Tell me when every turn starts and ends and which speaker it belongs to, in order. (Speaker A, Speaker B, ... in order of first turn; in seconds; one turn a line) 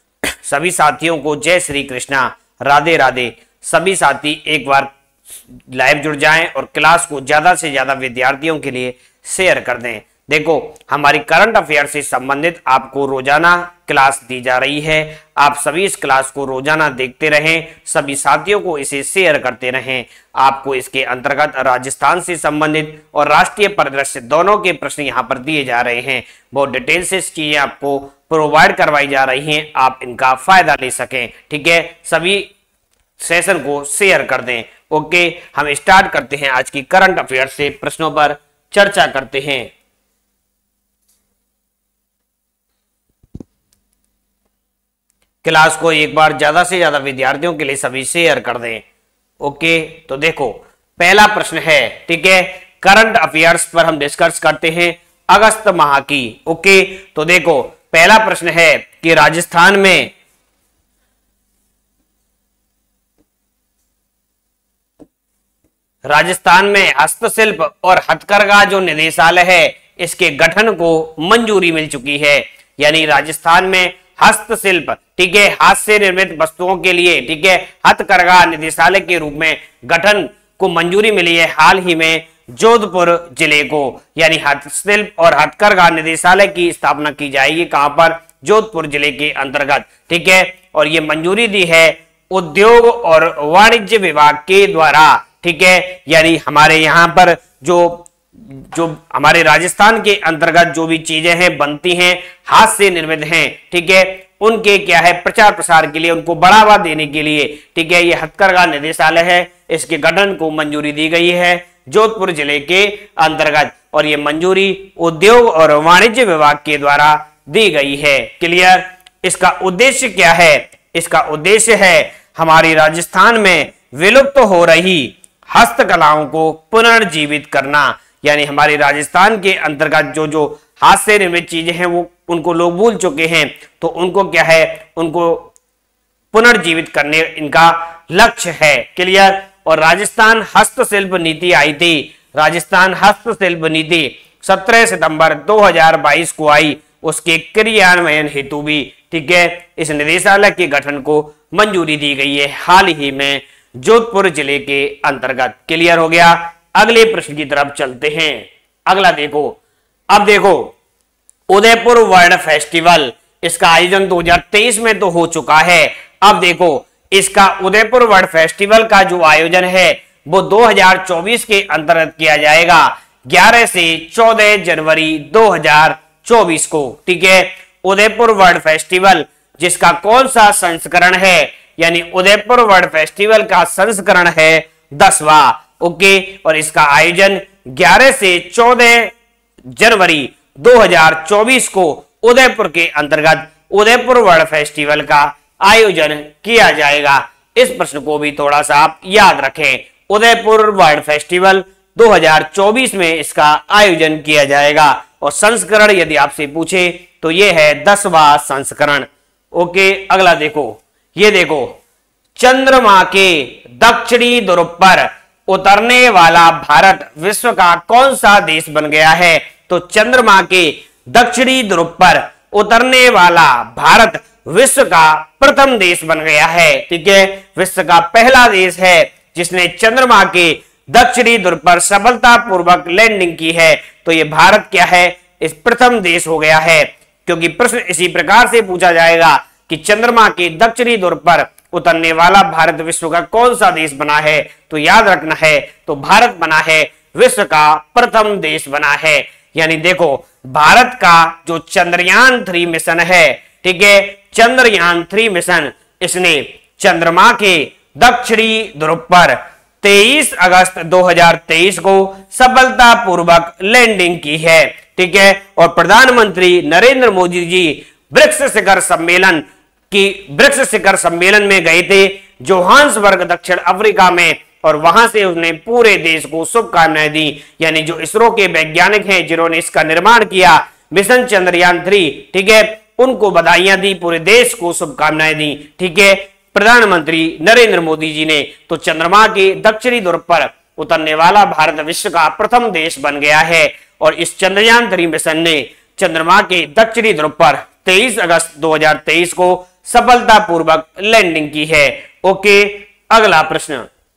Speaker A: 0.4-4.9
Speaker A: 5.7-32.5
Speaker A: 33.2-39.7
Speaker A: 45.4-48.8
Speaker A: 49.4-60.1
Speaker A: 66.0-135.5
Speaker A: 136.3-159.6
Speaker A: 160.1-160.8
Speaker A: 161.5-189.2
Speaker A: 189.7-211.8
Speaker A: 212.4-303.9